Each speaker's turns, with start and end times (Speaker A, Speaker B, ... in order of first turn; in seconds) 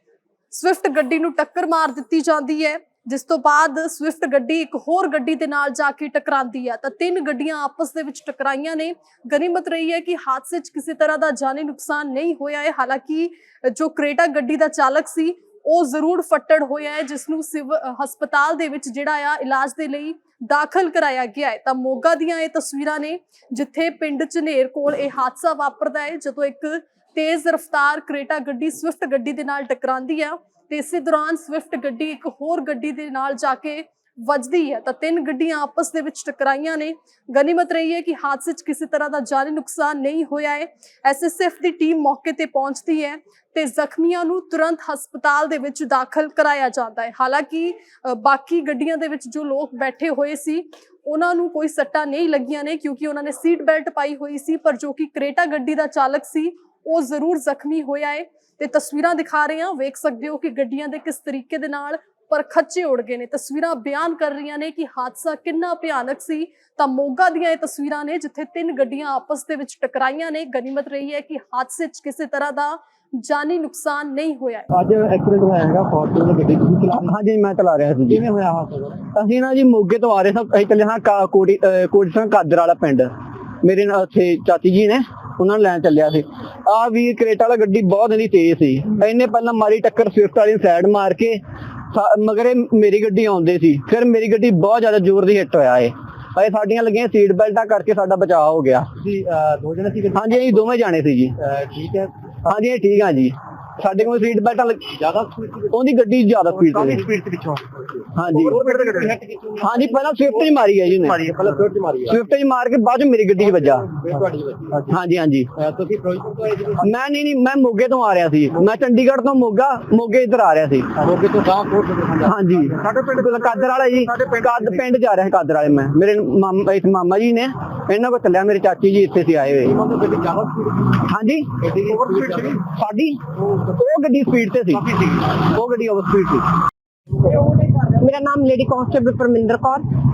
Speaker A: 0.5-74.7
Speaker B: 74.7-77.1, 78.1-79.0, 99.0-100.5, 101.4-102.1, 105.0-105.7, 106.8-110.0, 111.1-112.2, 113.5-114.9, 115.5-116.9, 121.0-122.8, 129.6-131.0, 131.6-132.6
Speaker C: 76.9-78.2, 79.1-83.1, 83.6-91.4, 91.9-98.9, 100.1-101.4, 102.5-105.0, 105.7-107.1, 108.1-108.8, 109.6-111.3, 112.1-113.9, 114.9-115.5, 116.8-121.0, 122.2-129.8, 131.0-131.5, 132.2-133.2, 133.7-136.5
Speaker D: 137.2-139.8